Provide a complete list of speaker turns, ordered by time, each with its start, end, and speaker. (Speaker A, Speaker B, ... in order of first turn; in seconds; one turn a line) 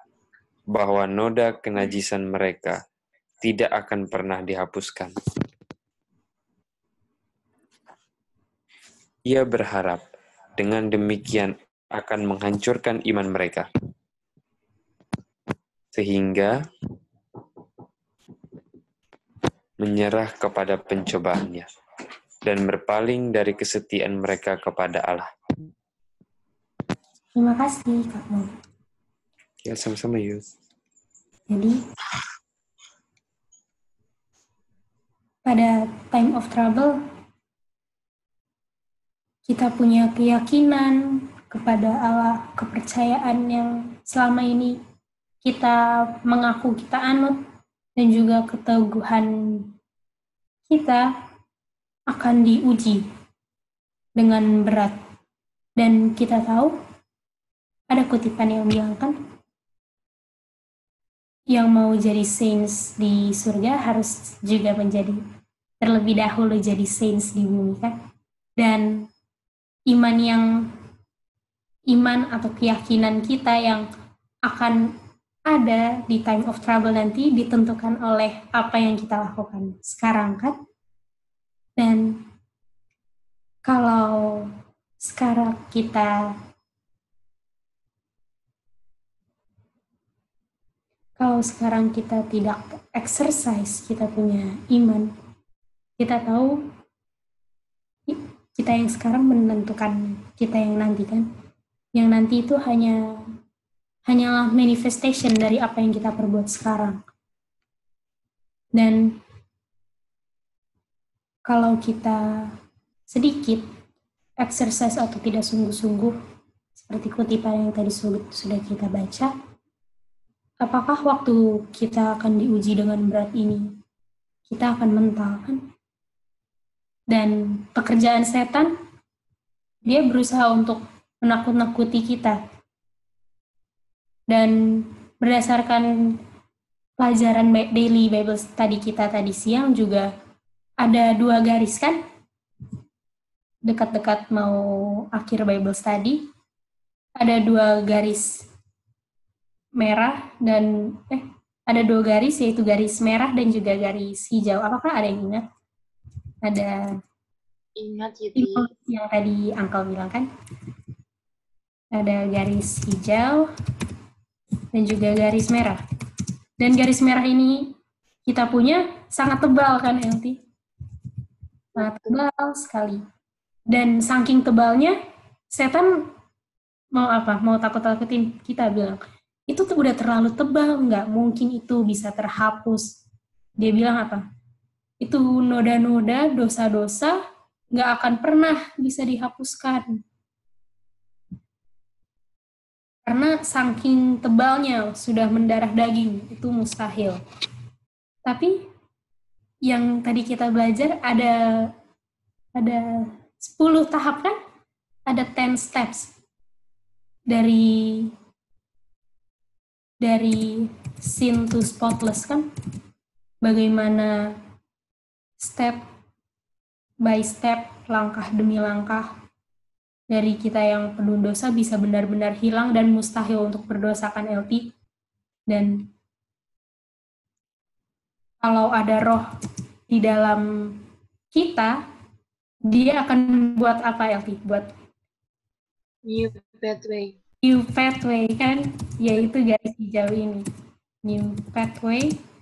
Speaker A: 0.7-2.8
Speaker A: 3.4-5.1
Speaker A: 9.2-10.0
Speaker A: 10.6-13.7
Speaker A: 15.9-16.5
Speaker A: 19.8-21.6
Speaker A: 22.4-25.3
Speaker B: 27.4-28.5
Speaker A: 29.6-30.4
Speaker B: 31.5-31.8
Speaker B: 35.4-37.0
Speaker B: 39.5-41.0
Speaker B: 41.5-44.8
Speaker B: 45.4-47.4
Speaker B: 48.0-49.3
Speaker B: 50.7-51.0
Speaker B: 52.1-53.0
Speaker B: 54.2-54.9
Speaker B: 55.8-56.7
Speaker B: 57.9-59.1
Speaker B: 61.5-65.2
Speaker B: 65.8-67.9
Speaker B: 68.6-68.9
Speaker B: 69.9-70.5
Speaker B: 71.9-73.8
Speaker B: 74.5-74.8
Speaker B: 75.5-80.5
Speaker B: 81.8-82.2
Speaker B: 83.7-84.5
Speaker B: 85.0-86.3
Speaker B: 91.2-95.1
Speaker B: 96.0-96.5
Speaker B: 98.1-101.2
Speaker B: 101.9-103.0
Speaker B: 104.1-107.0
Speaker B: 108.8-109.0
Speaker B: 111.5-112.2
Speaker B: 113.1-113.6
Speaker B: 114.4-116.1
Speaker B: 116.8-119.3
Speaker B: 120.6-123.7
Speaker B: 124.5-125.6
Speaker B: 127.1-128.7
Speaker B: 129.8-132.4
Speaker B: 134.3-135.9
Speaker B: 137.0-140.1
Speaker B: 140.8-142.0
Speaker B: 143.7-146.2
Speaker B: 147.2-148.4
Speaker B: 149.8-155.4
Speaker B: 156.4-156.9
Speaker C: 157.8-158.7
Speaker B: 158.3-160.3
Speaker B: 161.9-163.5
Speaker B: 164.7-165.8
Speaker B: 166.6-167.7
Speaker B: 168.3-170.4
Speaker B: 171.8-173.0
Speaker C: 171.8-172.1
Speaker B: 173.7-174.9
Speaker B: 175.5-175.9
Speaker B: 176.9-182.9
Speaker B: 183.6-184.2
Speaker B: 185.0-187.2
Speaker B: 187.7-190.0
Speaker B: 193.1-197.2
Speaker B: 198.2-198.6
Speaker B: 199.7-201.7
Speaker B: 202.6-204.4
Speaker B: 205.1-206.1
Speaker B: 207.3-208.1
Speaker B: 210.0-212.4
Speaker B: 213.4-214.2
Speaker B: 215.4-215.8
Speaker B: 217.0-219.1
Speaker B: 220.1-224.7
Speaker B: 225.5-225.8
Speaker B: 228.4-229.2
Speaker B: 229.9-230.4
Speaker B: 231.3-231.8
Speaker B: 232.7-234.7
Speaker C: 236.1-237.2
Speaker B: 237.4-240.4
Speaker B: 241.0-242.1